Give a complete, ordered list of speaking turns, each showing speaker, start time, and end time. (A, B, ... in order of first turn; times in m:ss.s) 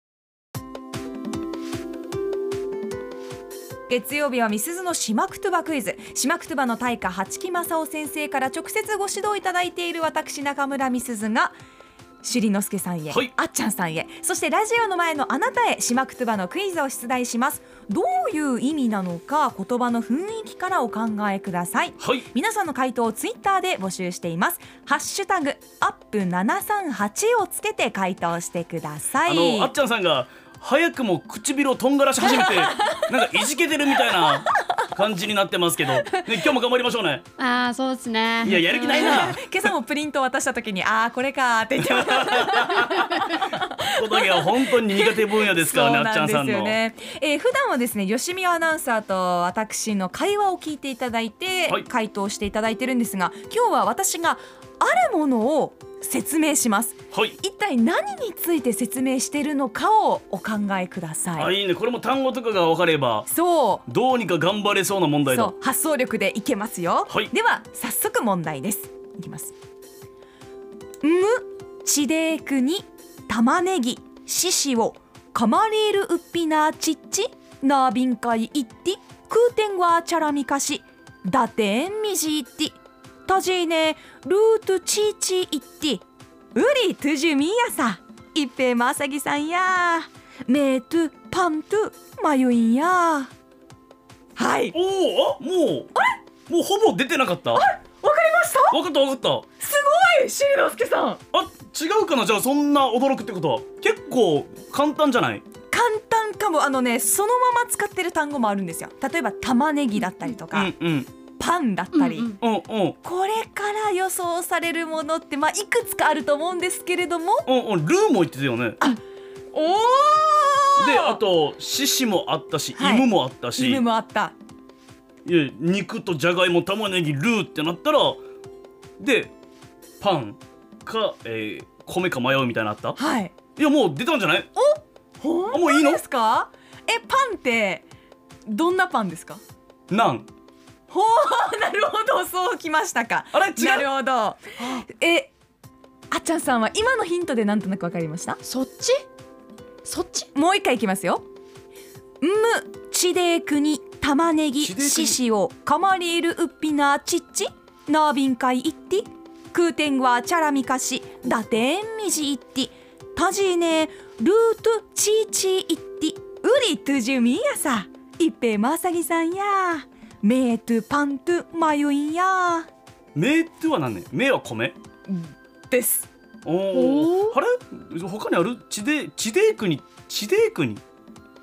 0:03.9-0:11.6 A
0:12.2-0:29.7 A
0:22.0-0:22.3 B
0:29.3-0:37.2 B
0:32.4-0:33.0 A
0:37.4-0:39.3 C
0:38.4-0:39.4 B
0:38.5-1:01.5 A
0:41.8-0:46.8 B
0:57.1-0:57.4 B
1:01.4-1:03.3 B
1:03.3-1:03.8 A
1:03.9-1:05.5 B
1:05.3-1:09.5 A
1:11.0-1:33.3 A
1:34.4-1:34.8 A
1:34.7-1:35.9 B
1:36.5-1:37.7 B
1:37.6-1:38.8 A
1:38.7-1:39.5 B
1:39.6-1:41.2 A
1:41.3-1:45.4 B
1:45.7-1:50.7 A
1:50.5-1:51.1 B
1:51.4-1:52.4 A
1:51.9-1:52.4 C
1:52.4-1:53.0 B
1:53.0-1:57.5 A
1:57.5-1:58.8 B
1:59.5-2:01.2 A
2:00.8-2:03.8 B
2:02.8-2:04.4 A
2:05.2-2:08.2 B
2:09.0-2:09.3 B
2:10.0-2:13.0 B
2:13.0-2:13.3 A
2:13.6-2:14.5 B
2:14.6-2:17.9 A
2:15.5-2:16.0 B
2:18.5-2:19.4 A
2:19.9-2:20.3 B
2:20.9-2:25.3 A
2:23.3-2:23.9 B
2:26.1-2:28.4 A
2:28.4-2:29.0 C
2:29.8-2:30.3 C
2:30.3-2:31.2 A
2:32.2-2:52.7 A
2:34.6-2:35.2 B
2:53.2-2:54.8 B
2:55.1-2:56.1 A
2:56.4-3:00.8 B
2:56.7-2:57.4 C